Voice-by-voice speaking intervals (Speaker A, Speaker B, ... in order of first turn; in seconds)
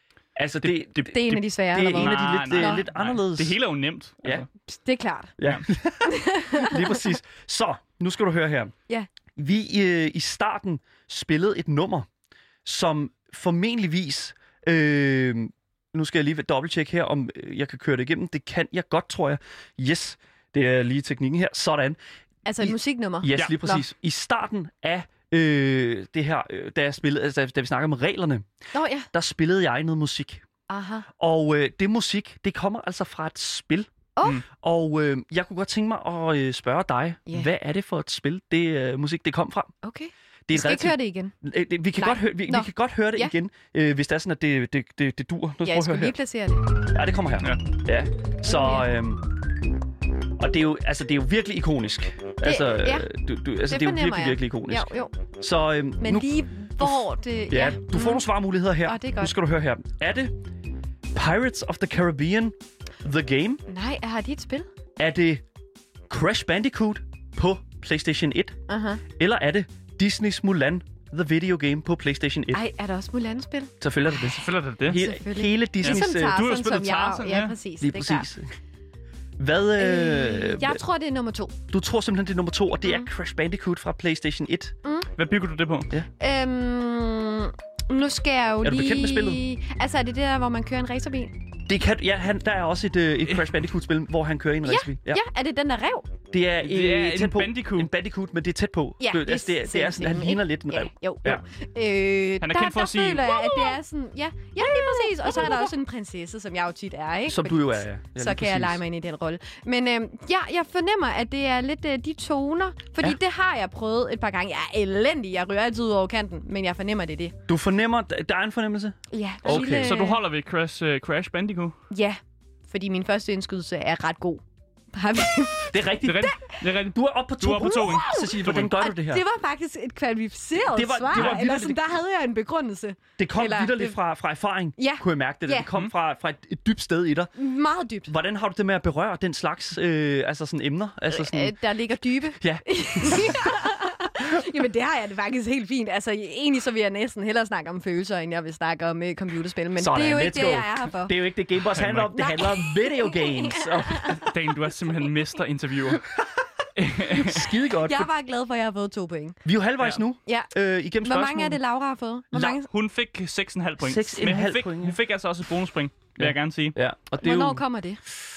Speaker A: 0.4-1.2, 1.7-3.6, 5.4-8.7, 9.4-12.1, 12.7-22.0, 22.6-28.5, 29.1-30.4, 31.2-33.9, 34.5-39.7, 40.5-46.2, 46.8-49.4, 50.4-60.4, 61.1-63.6, 65.0-65.4, 66.1-68.6, 69.1-72.6, 73.8-76.4, 77.8-78.6, 79.4-80.8, 81.7-84.8, 88.6-89.4, 91.7-95.2, 96.3-101.4, 104.7-105.7, 107.3-108.8, 117.5-120.0, 125.7-126.3, 126.9-129.2, 130.6-131.8, 133.2-137.3, 138.1-141.6, 142.3-143.6, 149.8-154.3, 156.1-156.5, 157.1-158.1, 159.4-161.6, 162.3-162.6, 163.8-165.0, 166.2-167.6
Speaker B: 0.6-4.5, 74.3-75.0, 75.8-77.6, 85.2-85.9, 96.6-97.9, 102.4-103.7, 119.5-121.8, 126.0-128.8, 131.1-131.4, 151.8-152.1, 154.1-156.1, 156.8-157.5, 162.7-166.8
Speaker C: 1.1-2.8, 4.7-5.3, 6.0-7.1, 22.5-23.8, 28.7-29.1, 30.7-31.1, 34.2-34.4, 39.8-41.3, 42.0-43.3, 45.6-46.7, 48.5-48.9, 52.4-53.1, 53.7-55.1, 56.0-58.3, 58.8-59.3, 63.7-64.7, 68.7-69.0, 72.5-73.7, 74.9-78.3, 79.8-81.6, 84.8-85.1, 86.2-91.4, 94.7-96.1, 99.0-117.3, 119.1-120.2, 121.9-126.6, 127.8-134.0, 134.8-135.7, 137.4-138.1, 141.1-151.2, 152.1-154.3, 157.8-159.4, 161.0-162.7, 167.2-168.0